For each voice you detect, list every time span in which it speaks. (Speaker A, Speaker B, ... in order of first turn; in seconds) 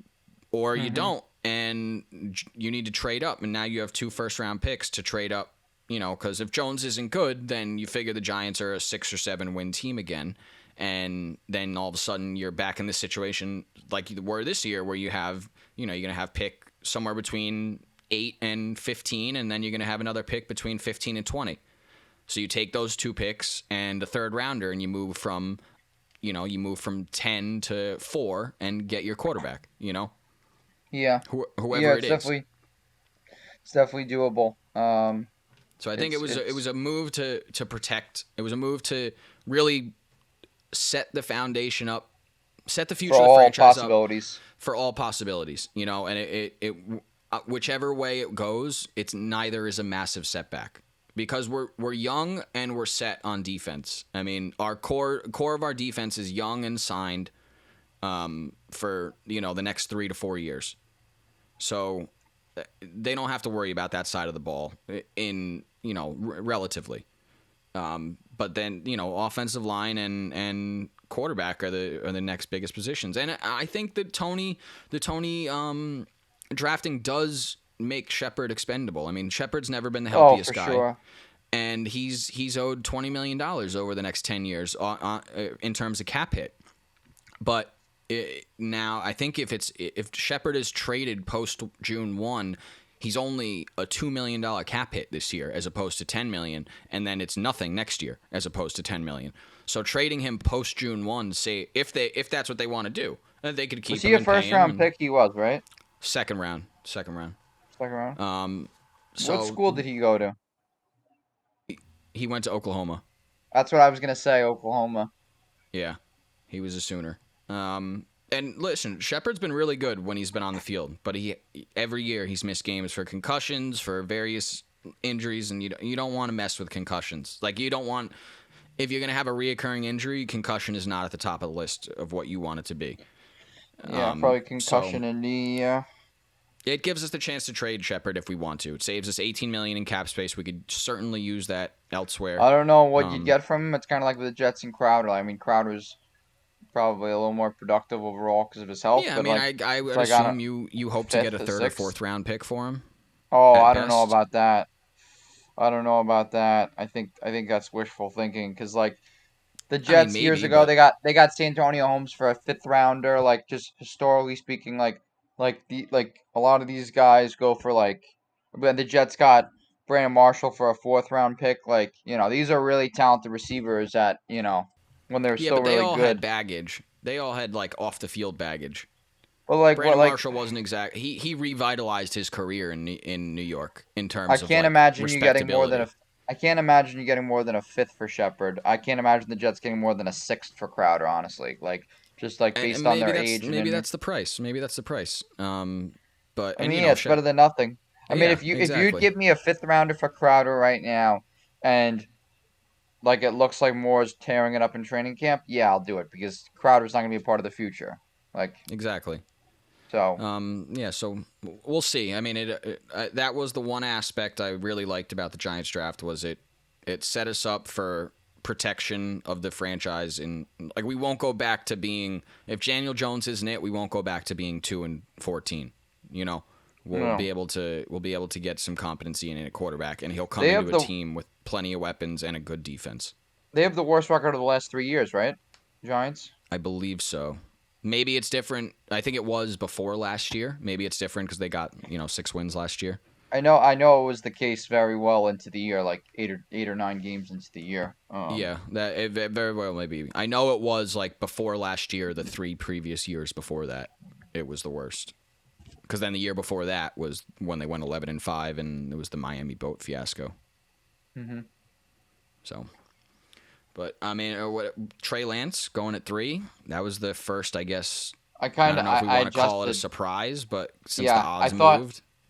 Speaker A: 0.5-21.6, 22.3-25.6, 26.2-30.1, 31.3-32.3, 35.8-39.9, 40.7-42.1, 42.7-44.0, 44.6-57.3, 58.0-60.8, 61.6-67.0, 67.8-80.9, 81.5-86.6, 87.4-104.9, 106.0-107.4, 108.2-109.8, 111.7-113.0, 116.5-128.1, 128.8-133.0, 133.8-135.0, 136.7-143.3, 148.9-152.8, 153.5-154.2, 159.9-160.7, 175.4-178.9, 179.8-185.9, 192.6-197.2, 198.1-199.1, 208.7-209.2, 210.2-233.1, 236.5-243.0, 248.3-255.1, 255.9-260.3, 263.8-272.0
Speaker B: 0.8-1.1, 30.9-32.5, 33.6-35.3, 36.0-36.6, 43.1-44.4, 80.1-81.0, 103.9-105.6, 107.8-108.2, 109.2-110.4, 113.5-115.1, 133.9-135.8, 142.4-146.0, 146.7-150.4, 151.1-151.9, 153.3-154.7, 155.6-159.0, 159.7-176.2, 179.5-180.2, 184.3-193.8, 196.6-202.1, 203.0-208.6, 209.9-210.2, 226.9-227.3, 230.4-230.9, 233.5-236.3, 243.3-248.5, 261.1-261.5, 268.4-269.8, 271.0-271.8